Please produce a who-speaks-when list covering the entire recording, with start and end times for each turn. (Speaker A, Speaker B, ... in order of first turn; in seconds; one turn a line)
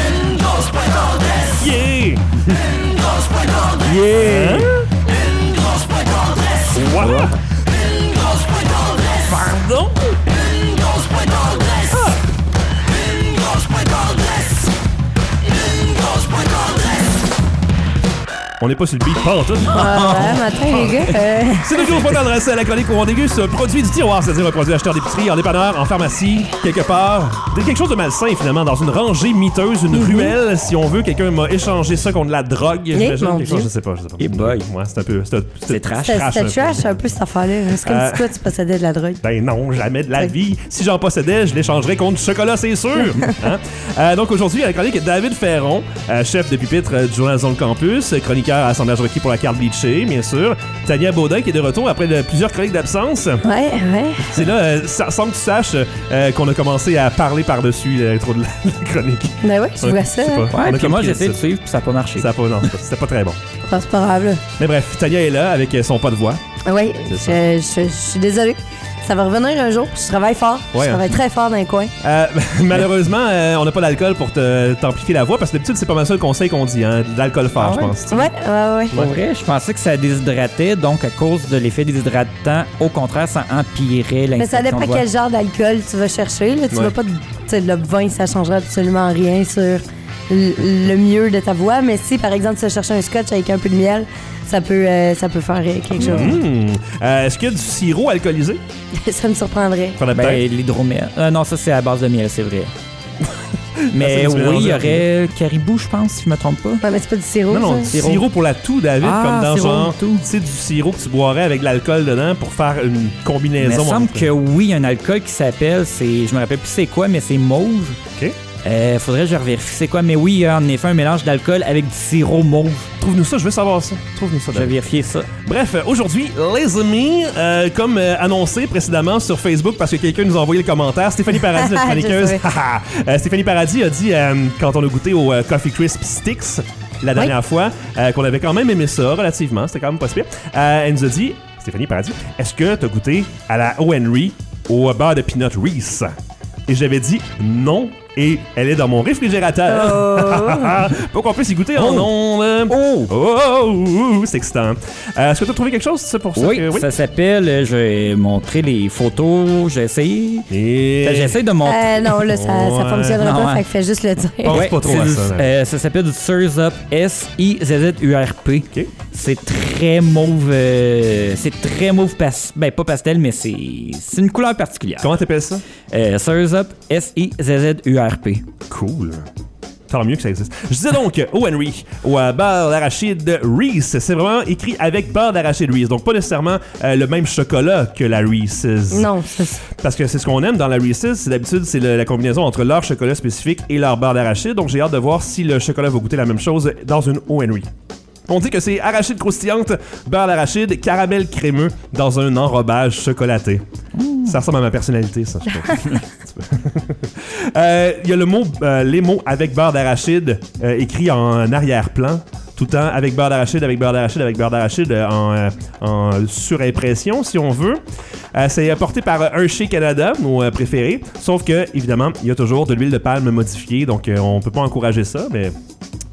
Speaker A: 1.4-2.4
Speaker B: 3.8-4.7
Speaker A: 4.2-4.8
Speaker A: 6.7-7.4
Speaker B: 6.9-7.3
Speaker A: 9.1-10.1
Speaker A: 18.6-20.9
Speaker C: 19.7-21.9
Speaker A: 21.6-36.9
Speaker C: 29.9-30.3
Speaker C: 32.9-33.7
Speaker B: 34.2-34.7
Speaker B: 35.7-36.2
Speaker C: 36.0-39.2
Speaker A: 37.8-38.3
Speaker A: 39.2-53.4
Speaker C: 53.4-54.4
Speaker A: 54.2-61.4
Speaker C: 59.4-60.5
Speaker B: 60.5-62.3
Speaker A: 62.1-63.4
Speaker C: 63.6-64.4
Speaker A: 64.6-66.4
Speaker C: 66.6-71.9
Speaker A: 67.0-67.4
Speaker A: 70.7-71.1
Speaker A: 72.0-78.3
Speaker B: 77.6-77.9
Speaker C: 78.0-79.0
Speaker A: 78.9-79.2
Speaker B: 78.9-85.0
Speaker C: 84.4-96.4
Speaker A: 96.0-98.6
Speaker C: 99.0-100.0
Speaker A: 100.0-100.4
Speaker B: 100.1-102.7
Speaker A: 103.7-105.1
Speaker B: 103.9-106.8
Speaker C: 106.8-108.0
Speaker A: 107.5-114.3
Speaker B: 107.9-108.3
Speaker B: 109.0-110.3
Speaker B: 113.6-118.0
Speaker B: 118.6-122.9
Speaker A: 123.0-124.8
Speaker B: 124.5-125.3
Speaker A: 125.4-146.1
Speaker C: 131.5-132.4
Speaker A: 146.7-156.9
Speaker C: 149.7-150.9
Speaker B: 151.8-152.1
Speaker B: 152.7-153.1
Speaker B: 156.3-160.5
Speaker A: 160.5-161.4
Speaker B: 161.0-162.2
Speaker C: 161.6-164.7
Speaker A: 162.2-163.2
Speaker B: 163.2-163.7
Speaker A: 164.4-165.5
Speaker B: 164.5-175.1
Speaker A: 175.0-175.6
Speaker B: 175.9-178.4
Speaker A: 178.7-179.3
Speaker A: 179.9-197.7
Speaker C: 188.9-189.6
Speaker A: 198.3-203.6
Speaker B: 204.0-204.3
Speaker A: 204.2-217.8
Speaker A: 218.3-225.5